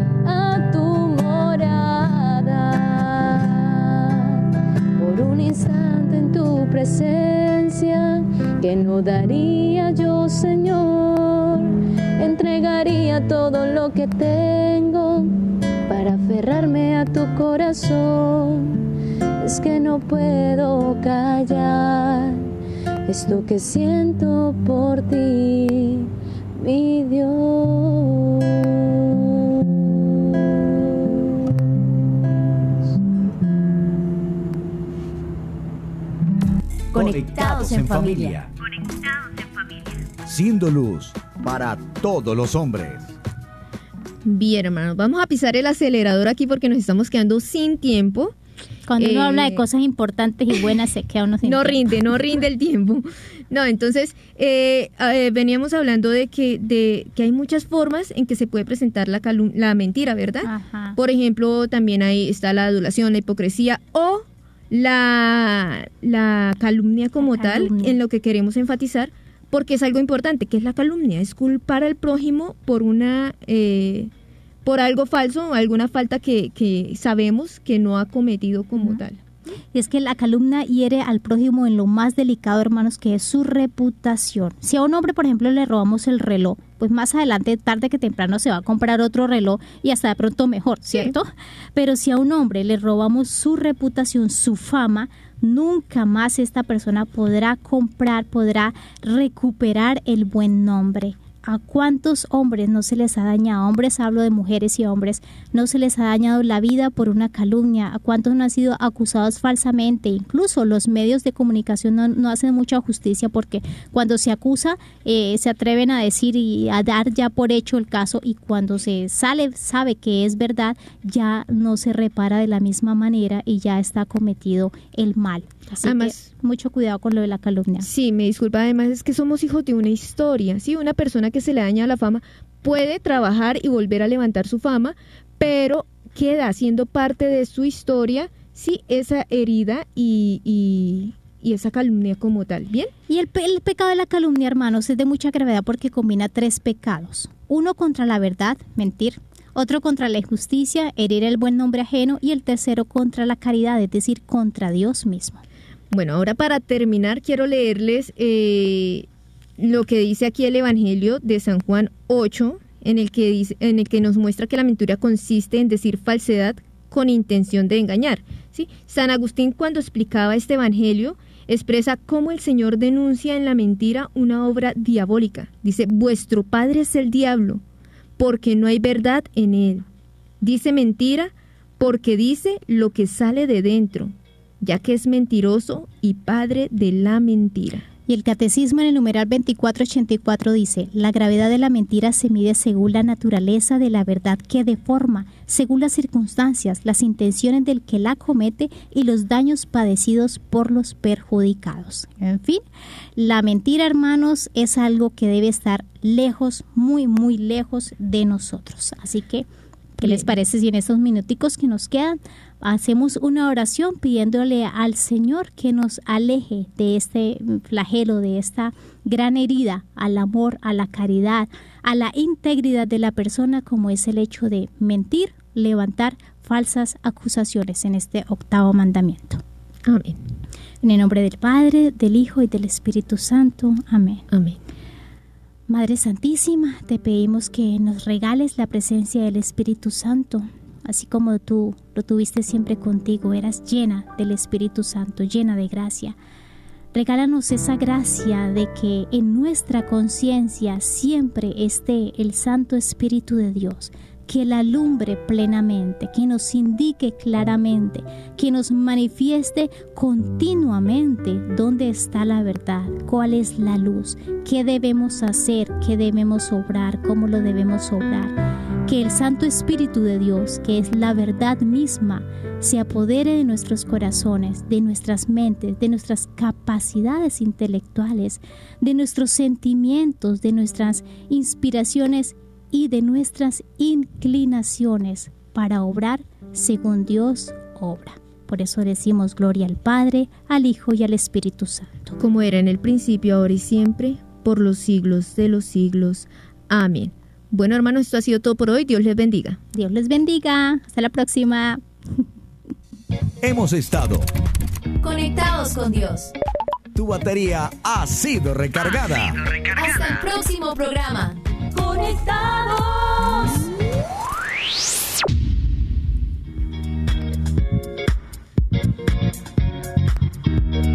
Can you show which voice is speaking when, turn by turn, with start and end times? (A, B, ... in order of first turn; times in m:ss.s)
0:00.2-0:15.3 A
0:15.9-0:18.8 A
0:19.4-0:22.4 A
0:23.1-0:30.5 A
0:36.9-0:38.4 B
0:36.9-0:38.5 C
0:40.2-0:43.1 C
0:44.2-0:48.3 D
0:48.9-0:51.8 E
0:49.0-0:49.6 D
0:51.4-1:14.1 D
1:00.4-1:01.0 E
1:07.2-1:08.0 E
1:14.6-1:19.2 D
1:19.7-2:07.9 E
2:05.8-2:06.2 D
2:07.8-2:22.9 D
2:23.1-2:35.4 E
2:35.9-2:39.1 D
2:39.6-2:57.6 D
2:58.2-2:59.8 D
3:00.4-3:07.8 D
3:08.1-3:22.6 E
3:23.2-3:29.4 E
3:30.0-3:49.4 E
3:30.0-3:30.3 D
3:49.8-3:50.2 D
3:50.8-3:54.2 E
3:54.3-3:54.6 D
3:55.7-4:06.2 E
4:06.9-4:52.2 E
4:52.2-4:59.6 D
4:59.7-5:01.8 E
5:03.4-5:04.3 C
5:05.0-5:06.3 B
5:06.9-5:09.4 C
5:09.7-5:13.6 B